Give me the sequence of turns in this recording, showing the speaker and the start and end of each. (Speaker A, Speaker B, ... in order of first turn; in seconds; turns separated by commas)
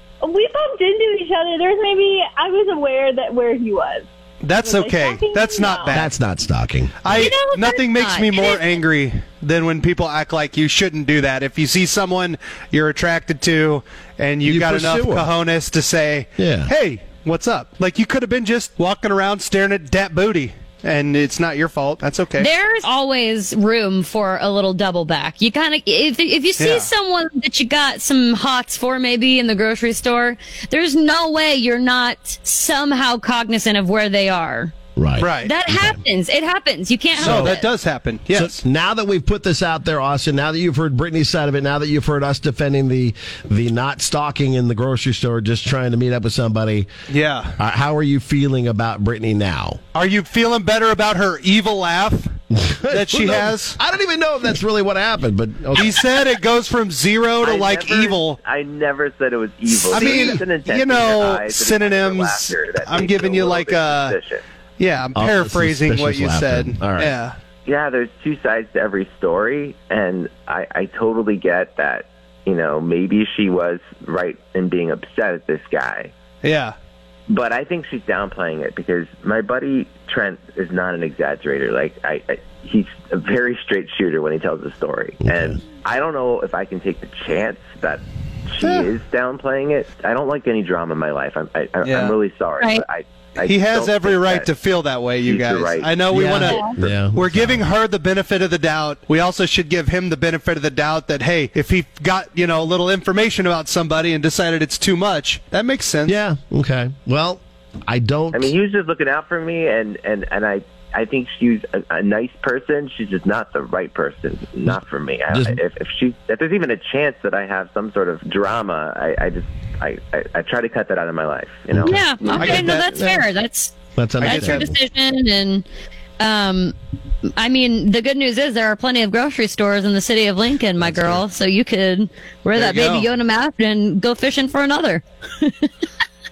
Speaker A: 0.2-6.1, Speaker B: 4.4-6.1, Speaker C: 5.9-7.3, Speaker B: 7.0-22.5, Speaker D: 7.1-8.8, Speaker C: 14.4-15.3, Speaker C: 16.4-16.7, Speaker D: 22.4-34.7, Speaker B: 26.6-26.9, Speaker C: 34.9-36.0, Speaker B: 35.2-35.5, Speaker D: 35.4-37.7, Speaker B: 37.2-38.6, Speaker C: 37.2-37.6, Speaker C: 38.3-46.9, Speaker B: 47.1-47.6, Speaker C: 47.6-49.8, Speaker B: 49.9-52.3, Speaker C: 52.5-56.0, Speaker B: 52.9-53.8, Speaker B: 55.7-58.4, Speaker E: 57.4-64.4, Speaker C: 59.7-60.4, Speaker B: 59.9-64.2, Speaker B: 64.8-67.3, Speaker C: 65.1-67.1, Speaker E: 67.7-76.1, Speaker B: 76.4-76.8, Speaker E: 77.3-94.5, Speaker C: 85.2-85.6, Speaker B: 88.6-88.9, Speaker B: 91.8-92.2, Speaker D: 92.6-92.8, Speaker B: 93.4-106.1, Speaker E: 95.2-96.1, Speaker C: 96.1-97.7, Speaker D: 96.4-96.7, Speaker C: 106.0-108.5, Speaker E: 108.3-122.1, Speaker C: 115.3-115.6, Speaker C: 121.7-123.0, Speaker D: 121.8-125.6, Speaker B: 122.3-123.1, Speaker C: 124.0-124.8, Speaker B: 124.2-124.6, Speaker D: 126.2-126.7, Speaker D: 127.4-135.7, Speaker C: 130.8-131.2, Speaker B: 132.5-133.1